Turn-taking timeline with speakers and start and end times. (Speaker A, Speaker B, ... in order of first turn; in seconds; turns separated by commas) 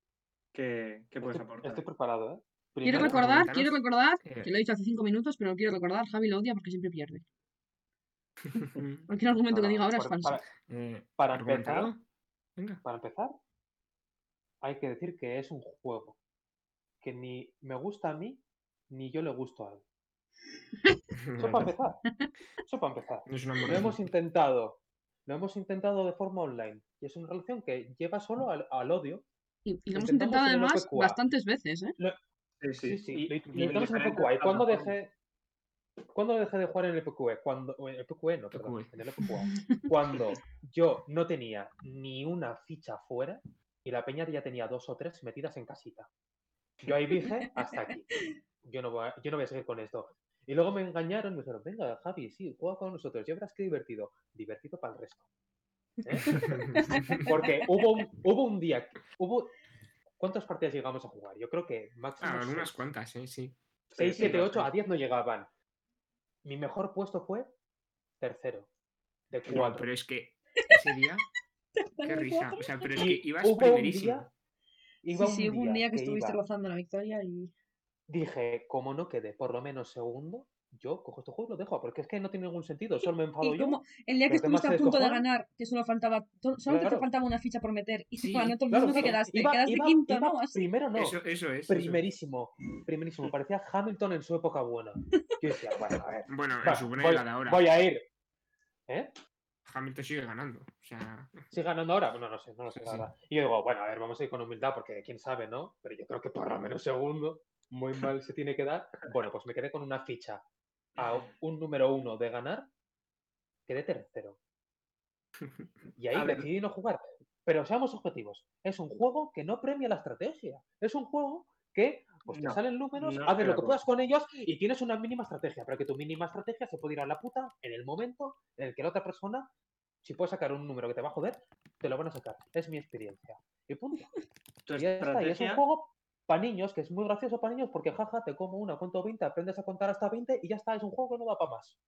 Speaker A: 0.5-1.8, Speaker B: 1.2-3.4, Speaker C: 2.8-7.2, Speaker D: 2.9-4.5, Speaker D: 8.5-9.1, Speaker C: 9.1-10.4, Speaker B: 9.5-10.4, Speaker D: 10.7-12.0, Speaker B: 11.2-11.9, Speaker D: 12.6-12.8, Speaker B: 12.8-13.3, Speaker B: 14.6-16.2, Speaker B: 17.0-19.8, Speaker D: 21.1-21.7, Speaker B: 21.4-22.0, Speaker B: 22.6-29.2, Speaker D: 23.2-24.1, Speaker C: 29.6-31.9, Speaker B: 29.9-31.2, Speaker A: 32.6-34.9, Speaker B: 32.8-35.1, Speaker D: 33.5-34.0, Speaker B: 36.1-46.1, Speaker D: 38.5-38.9, Speaker B: 46.8-48.1, Speaker B: 48.6-55.2, Speaker B: 56.0-56.4, Speaker C: 56.2-57.8, Speaker D: 56.5-57.3, Speaker B: 57.2-59.5, Speaker B: 60.2-62.9, Speaker D: 62.2-63.6, Speaker A: 63.9-64.5, Speaker B: 64.0-65.5, Speaker D: 64.1-64.7, Speaker B: 66.4-67.5, Speaker B: 68.2-68.7, Speaker B: 69.3-69.9, Speaker D: 69.5-71.2, Speaker C: 71.8-72.9, Speaker D: 72.0-74.3, Speaker B: 72.9-74.3, Speaker B: 75.0-76.4, Speaker C: 75.1-77.5, Speaker B: 78.1-85.3, Speaker C: 83.4-90.6, Speaker B: 86.7-87.1, Speaker D: 88.2-88.6, Speaker B: 88.7-98.0, Speaker D: 90.9-92.0, Speaker D: 96.3-97.6, Speaker B: 98.9-99.1, Speaker D: 99.6-101.5, Speaker B: 101.5-110.4, Speaker D: 102.7-103.1, Speaker B: 111.0-112.7, Speaker A: 111.0-111.3, Speaker B: 113.7-114.4, Speaker B: 116.0-129.5, Speaker A: 116.1-116.5, Speaker A: 122.3-123.8, Speaker B: 130.0-134.1, Speaker A: 134.7-135.6, Speaker B: 134.8-141.8